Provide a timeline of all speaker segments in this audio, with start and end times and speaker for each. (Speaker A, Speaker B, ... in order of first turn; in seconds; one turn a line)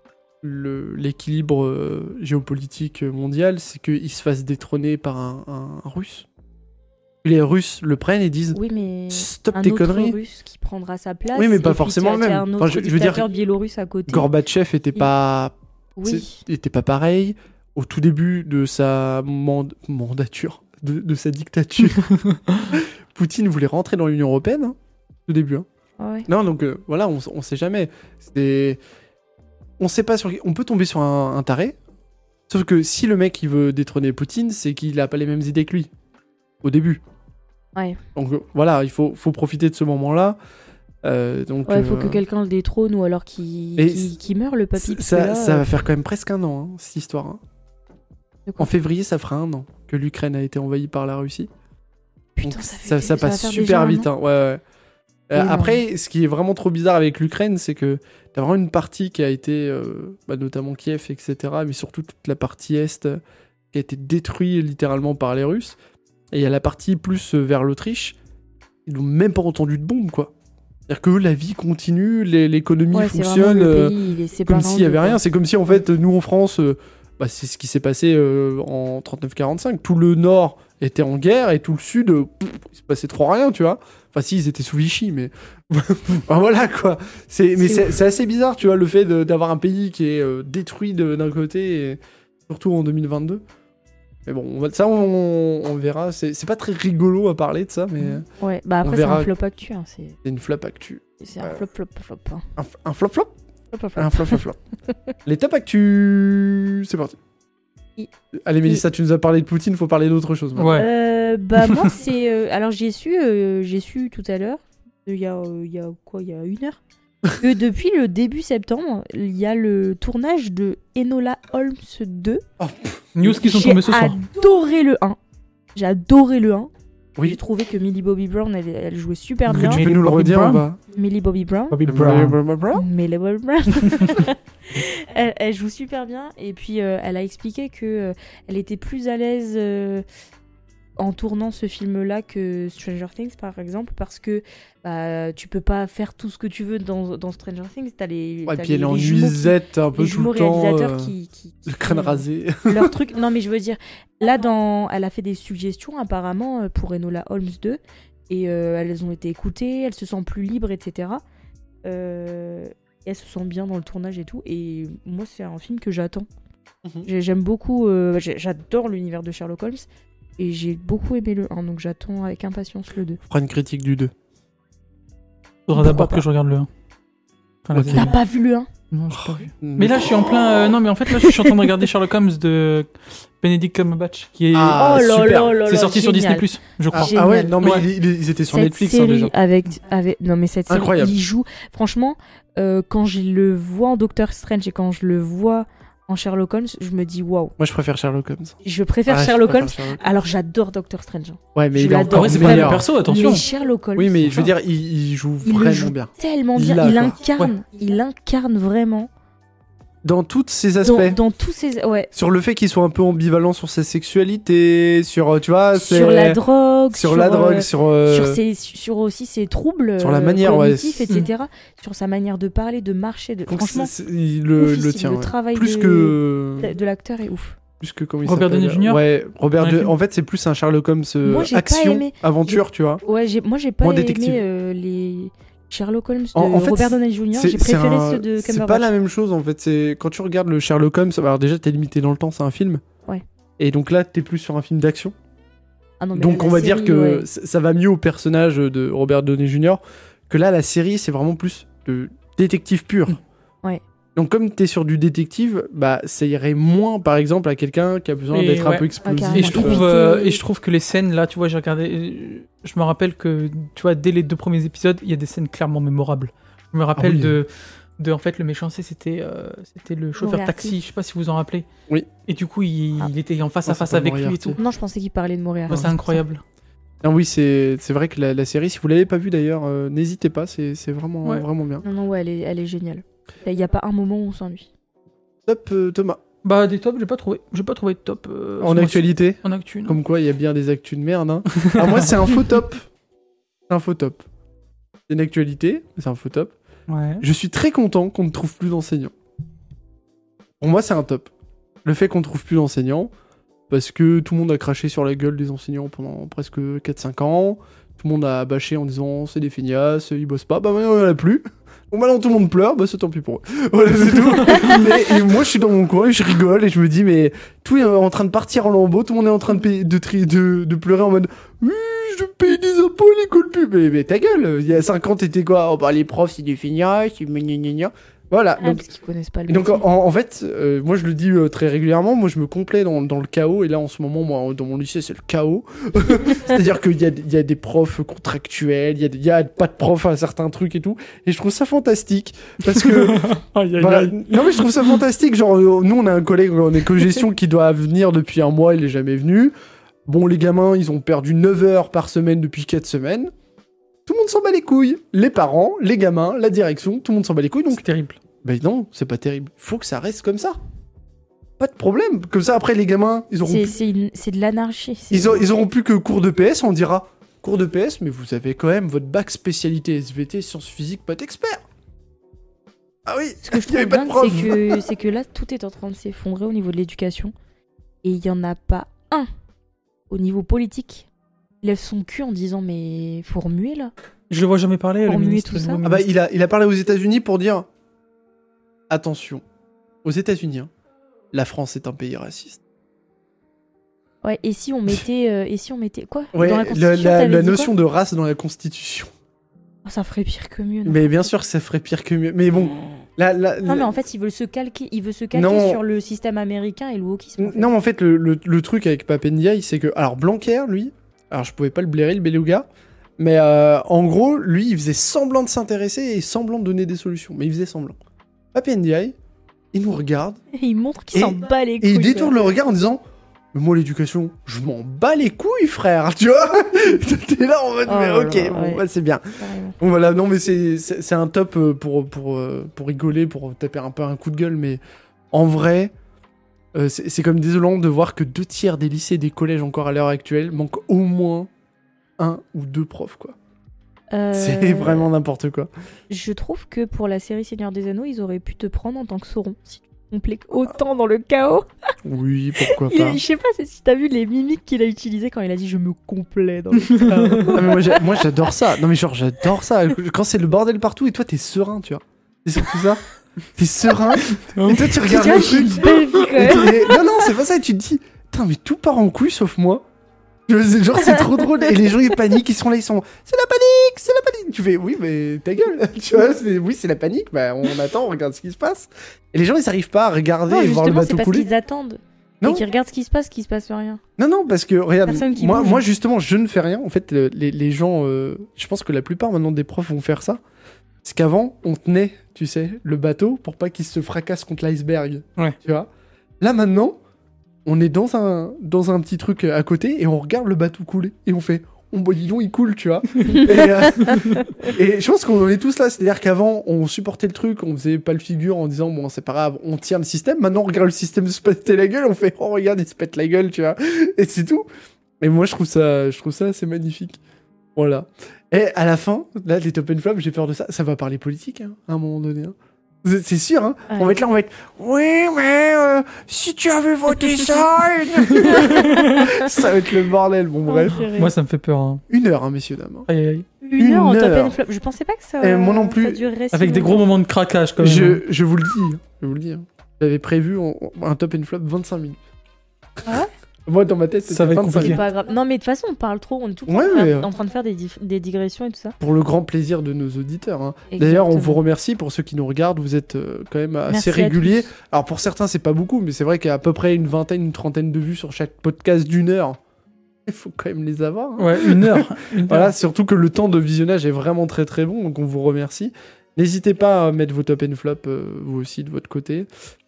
Speaker A: 0.4-6.3
Speaker A: 7.2-8.6
Speaker B: 8.5-14.3
Speaker A: 9.1-10.2
Speaker A: 11.3-13.2
Speaker A: 14.1-15.5
Speaker B: 15.9-16.4
Speaker A: 16.1-22.1
Speaker C: 22.0-22.7
Speaker A: 22.7-25.6
Speaker B: 26.0-26.3
Speaker A: 26.3-28.8
Speaker A: 29.8-31.8
Speaker A: 32.5-35.9
Speaker A: 36.6-37.0
Speaker B: 37.7-38.0
Speaker A: 38.1-40.4
Speaker A: 41.0-42.2
Speaker B: 41.6-45.8
Speaker A: 43.8-44.1
Speaker A: 44.8-47.4
Speaker A: 48.6-51.5
Speaker B: 52.4-54.1
Speaker A: 52.4-54.6
Speaker A: 55.3-63.2
Speaker B: 55.3-55.8
Speaker A: 63.7-65.8
Speaker A: 66.3-68.2
Speaker A: 68.8-70.3
Speaker A: 70.9-74.0
Speaker B: 72.9-75.2
Speaker A: 74.5-93.4
Speaker B: 87.6-87.9
Speaker A: 94.2-98.2
Speaker B: 98.3-100.2
Speaker A: 98.8-99.3
Speaker A: 100.2-101.6
Speaker B: 101.2-102.5
Speaker A: 102.6-103.3
Speaker B: 103.7-105.1
Speaker A: 104.0-104.6
Speaker A: 105.2-107.2
Speaker A: 108.4-110.8
Speaker C: 110.5-110.9
Speaker B: 110.8-116.8
Speaker B: 117.3-122.4
Speaker A: 122.6-123.0
Speaker C: 123.1-124.2
Speaker B: 123.2-125.2
Speaker B: 125.7-126.7
Speaker B: 127.2-129.8
Speaker C: 129.5-130.6
Speaker A: 129.5-130.8
Speaker B: 130.9-132.2
Speaker C: 131.7-132.4
Speaker A: 131.9-132.8
Speaker B: 132.7-140.0
Speaker B: 141.0-161.2
Speaker A: 148.4-151.1
Speaker A: 151.7-152.9
Speaker B: 161.8-166.3
Speaker B: 167.0-169.8
Speaker B: 170.4-173.2
Speaker A: 173.2-174.1
Speaker C: 175.7-176.7
Speaker B: 175.8-176.2
Speaker C: 177.7-178.1
Speaker A: 177.7-178.1
Speaker B: 177.9-178.7
Speaker C: 178.9-184.9
Speaker A: 179.1-180.7
Speaker A: 184.5-185.6
Speaker B: 184.7-187.5
Speaker C: 185.7-187.8
Speaker A: 186.9-189.3
Speaker B: 188.5-197.6
Speaker A: 190.7-191.1
Speaker A: 197.6-200.0
Speaker B: 198.6-204.5
Speaker A: 201.6-202.8
Speaker C: 202.0-203.5
Speaker A: 203.9-207.2
Speaker B: 205.4-209.1
Speaker A: 210.0-211.2
Speaker B: 210.8-212.1
Speaker A: 212.1-216.4
Speaker B: 215.7-223.9
Speaker A: 216.9-218.4
Speaker A: 220.0-221.0
Speaker A: 223.5-226.7
Speaker B: 224.6-227.6
Speaker A: 227.8-233.0
Speaker C: 228.2-229.0
Speaker C: 229.6-229.9
Speaker B: 231.2-238.9
Speaker A: 233.8-234.4
Speaker A: 236.3-242.8
Speaker A: 243.6-245.1
Speaker B: 246.0-247.2
Speaker A: 246.1-253.2
Speaker A: 254.2-259.8
Speaker C: 258.3-271.7
Speaker B: 259.0-260.4
Speaker A: 266.9-267.4
Speaker B: 270.2-270.7
Speaker C: 272.2-274.6
Speaker A: 273.6-274.6
Speaker B: 274.6-276.2
Speaker C: 275.7-276.4
Speaker A: 277.0-281.8
Speaker B: 281.8-284.7
Speaker A: 285.4-286.2
Speaker C: 286.4-290.0
Speaker A: 288.6-292.9
Speaker C: 291.5-292.1
Speaker A: 293.7-294.2
Speaker A: 295.1-296.5
Speaker C: 296.9-297.2
Speaker A: 297.2-299.1
Speaker A: 300.6-301.3
Speaker A: 301.8-303.1
Speaker A: 303.7-328.8
Speaker C: 314.5-314.9
Speaker B: 328.6-329.8
Speaker A: 329.5-349.5
Speaker C: 342.6-345.0
Speaker A: 350.1-353.3
Speaker A: 354.1-357.8
Speaker C: 357.7-358.2
Speaker A: 358.4-360.6
Speaker A: 361.6-363.8
Speaker B: 363.4-365.4
Speaker A: 365.1-371.6
Speaker A: 373.1-374.8
Speaker B: 373.4-377.3
Speaker B: 378.0-379.3
Speaker B: 380.1-381.1
Speaker B: 381.6-383.9
Speaker C: 384.3-386.1
Speaker B: 385.1-385.8
Speaker A: 385.8-387.6
Speaker A: 388.9-389.4
Speaker A: 390.0-390.7
Speaker A: 391.3-392.6
Speaker B: 394.2-397.7
Speaker A: 396.3-399.1
Speaker B: 399.8-401.2
Speaker A: 400.8-403.9
Speaker B: 403.6-407.7
Speaker A: 405.3-405.8
Speaker A: 407.4-412.6
Speaker A: 413.2-418.0
Speaker A: 418.5-419.1
Speaker A: 419.7-420.4
Speaker B: 420.5-422.4
Speaker A: 421.1-423.0
Speaker A: 423.5-429.2
Speaker B: 427.9-428.8
Speaker B: 429.4-429.8
Speaker A: 429.8-434.8
Speaker A: 435.3-435.9
Speaker A: 436.7-441.5
Speaker A: 442.2-443.4
Speaker B: 444.1-445.1
Speaker A: 444.3-445.7
Speaker B: 446.1-451.7
Speaker A: 452.0-453.2
Speaker B: 452.7-458.6
Speaker C: 456.8-457.6
Speaker A: 457.2-463.0
Speaker A: 463.5-469.8
Speaker C: 464.2-466.7
Speaker B: 465.0-467.1
Speaker A: 470.5-481.5
Speaker B: 480.5-484.0
Speaker A: 484.2-490.4
Speaker B: 485.1-485.8
Speaker A: 491.0-495.9
Speaker A: 496.4-497.0
Speaker A: 497.6-514.6
Speaker C: 503.2-503.5
Speaker B: 503.3-504.4
Speaker C: 504.0-504.5
Speaker A: 515.2-517.2
Speaker A: 517.8-531.0
Speaker B: 523.9-524.1
Speaker C: 528.2-529.3
Speaker B: 528.5-529.5
Speaker B: 530.7-531.3
Speaker C: 531.0-532.0
Speaker A: 532.1-533.1
Speaker C: 533.1-533.5
Speaker B: 533.6-537.1
Speaker A: 533.8-534.6
Speaker A: 535.4-536.2
Speaker C: 536.5-538.2
Speaker A: 537.8-542.2
Speaker B: 543.0-543.3
Speaker A: 543.6-545.0
Speaker C: 544.3-545.0
Speaker B: 544.7-549.0
Speaker A: 546.7-547.3
Speaker A: 549.0-559.6
Speaker B: 550.9-551.6
Speaker B: 553.9-554.6
Speaker A: 560.2-569.5
Speaker C: 561.4-562.7